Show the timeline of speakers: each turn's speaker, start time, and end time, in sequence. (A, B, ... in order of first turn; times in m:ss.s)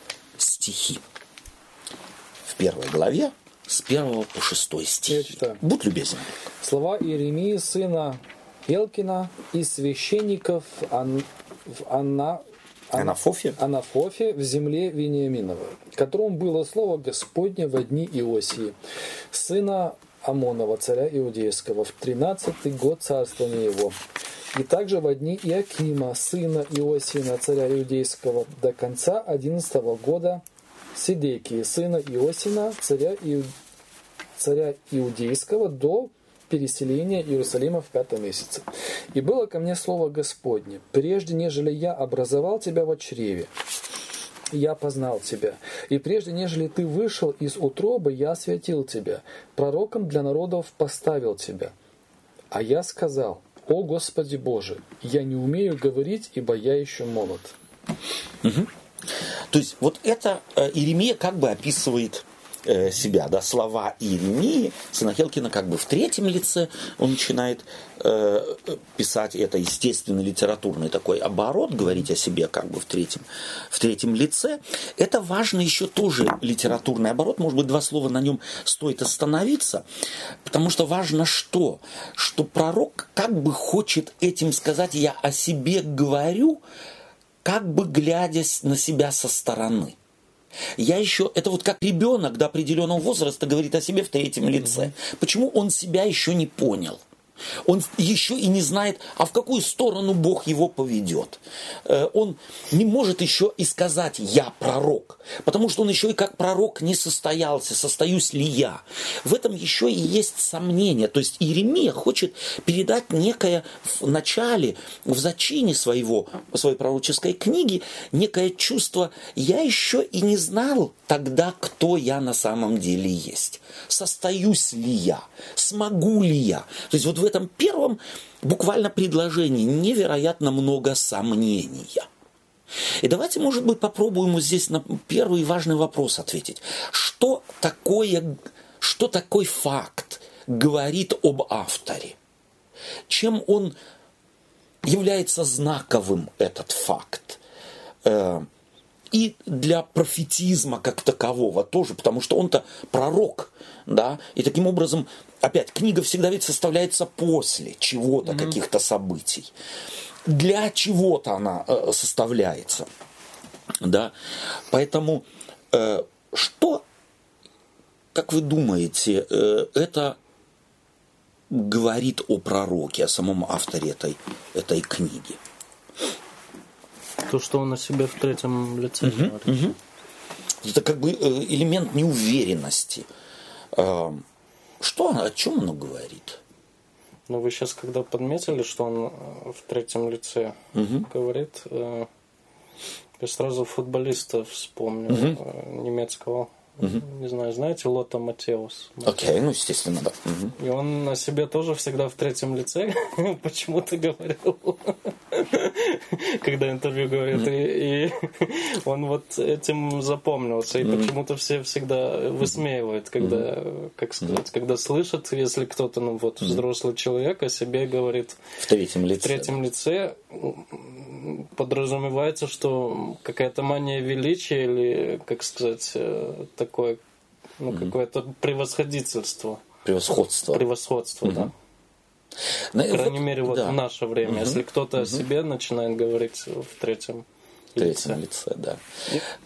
0:00.4-0:01.0 A
0:02.4-0:06.3 A
0:05.1-0:05.6 B
0:06.6-0:18.7 B
0:12.9-0:13.6 A
0:19.3-0:24.0 B
0:24.5-0:30.4 B
0:30.9-0:33.5 B
0:34.4-0:43.5 B
0:44.5-0:51.7 B
0:52.5-0:57.6 B
0:58.4-0:58.7 A
0:59.5-1:19.8 A
1:20.4-1:26.6 A
1:27.4-1:30.0 A
1:30.8-1:37.0 A
1:37.6-2:12.1 A
2:13.0-2:22.2 A
2:23.1-2:23.8 A
2:24.8-2:27.4 A
2:28.0-2:28.5 A
2:29.1-2:39.5 A
2:38.3-2:38.6 B
2:40.2-2:42.9 A
2:43.8-2:44.1 A
2:44.7-2:46.8 A
2:48.1-2:50.2 A
2:51.5-2:55.4 A
2:57.3-2:59.7 C
2:59.0-2:59.8 A
3:00.6-3:03.1 A
3:03.7-3:04.2 A
3:04.8-3:06.4 A
3:07.3-3:12.1 C
3:10.7-3:11.1 A
3:13.2-3:19.1 C
3:15.1-3:15.4 A
3:19.0-3:20.5 A
3:20.6-3:38.4 C
3:30.8-3:31.1 A
3:33.2-3:33.4 A
3:38.6-3:39.6 A
3:39.2-3:47.0 C
3:47.6-3:49.6 C
3:49.8-3:50.6 A
3:50.5-3:51.5 C
3:51.2-3:51.5 A
3:52.7-3:55.2 A
3:52.9-3:58.2 C
3:57.8-3:58.8 A